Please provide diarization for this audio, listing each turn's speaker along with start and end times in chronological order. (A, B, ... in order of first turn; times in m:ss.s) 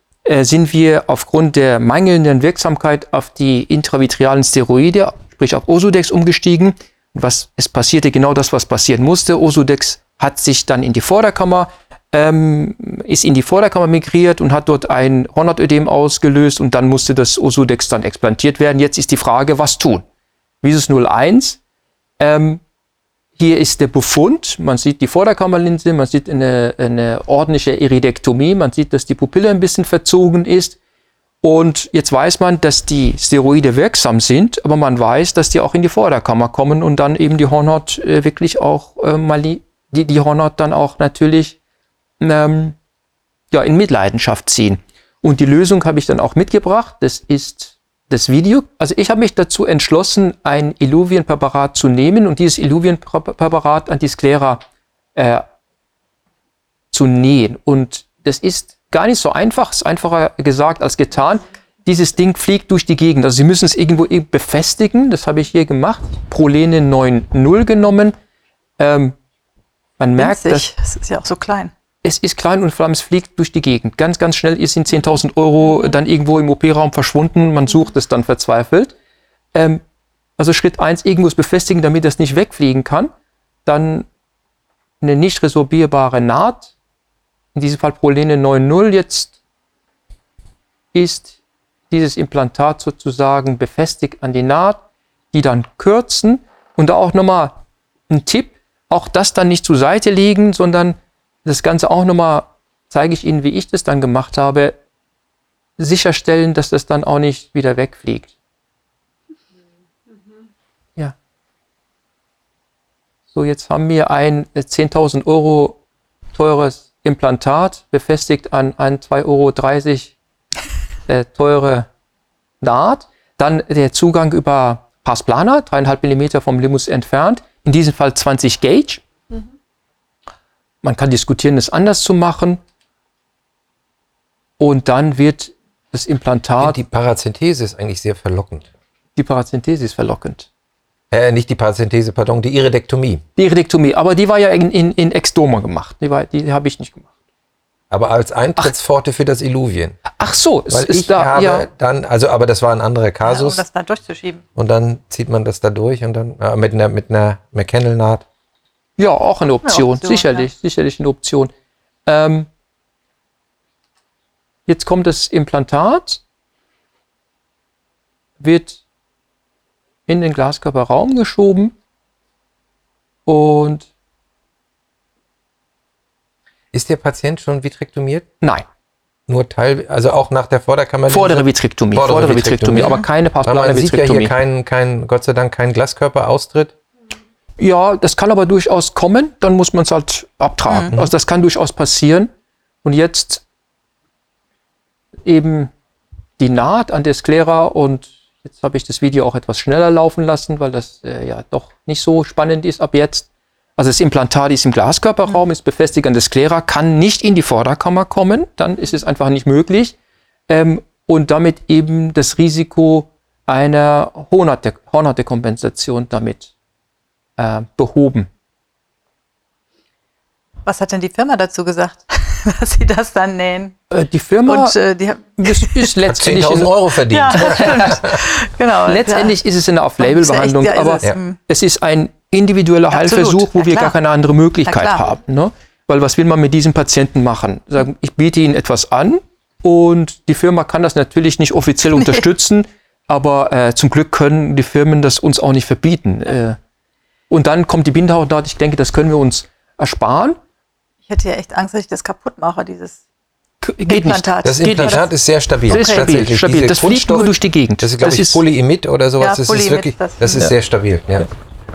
0:00.2-0:20.0 A
0:20.6-0:21.6 A
0:22.2-0:22.6 A
0:23.4-0:30.8 A
0:31.4-0:41.6 A
0:42.2-0:42.8 A
0:43.5-0:54.6 A
0:55.1-0:55.4 A
0:56.9-1:08.1 A
1:08.8-1:09.1 A
1:10.0-1:10.6 A
1:10.2-1:11.7 B
1:12.0-1:18.9 A
1:19.5-1:19.8 A
1:20.4-1:23.1 A
1:23.6-1:24.1 A
1:25.0-1:26.7 A
1:27.5-1:29.3 A
1:30.9-1:31.3 A
1:31.9-1:44.8 A
1:45.8-1:48.3 A
1:53.3-1:55.8 A
1:56.3-2:00.1 A
2:01.1-2:01.9 A
2:02.6-2:09.0 A
2:10.8-2:12.6 A
2:14.6-2:16.8 A
2:16.6-2:18.6 C
2:19.2-2:20.5 A
2:21.1-2:23.2 C
2:23.4-2:27.1 A
2:27.9-2:30.0 C
2:30.2-2:31.6 A
2:30.7-2:33.6 C
2:33.2-2:34.4 B
2:34.6-2:38.2 C
2:39.0-2:41.5 A
2:39.6-2:40.4 B
2:42.0-2:42.5 A
2:44.7-2:46.2 A
2:48.4-2:48.8 A
2:50.1-2:51.7 A
2:53.2-2:53.9 A
2:56.7-2:58.2 C
2:59.3-3:06.7 C
3:01.1-3:04.3 A
3:07.6-3:12.3 A
3:12.8-3:13.4 A
3:15.2-3:15.7 A
3:16.4-3:29.9 A
3:30.5-3:36.5 A
3:37.4-3:38.3 A
3:40.6-3:43.8 B
3:43.9-3:44.7 A
3:44.4-3:45.9 B
3:45.4-3:46.7 A
3:46.1-3:48.2 C
3:47.1-3:49.4 B
3:47.3-3:48.0 A
3:48.8-4:06.6 A
3:50.0-3:51.4 B
3:52.9-3:54.0 B
3:54.6-3:55.0 B
4:02.0-4:02.2 B
4:07.3-4:10.4 A
4:11.1-4:13.0 B
4:13.6-4:15.0 A
4:13.8-4:15.0 B
4:14.4-4:21.3 C
4:15.7-4:18.4 A
4:15.7-4:16.1 B
4:19.2-4:20.4 B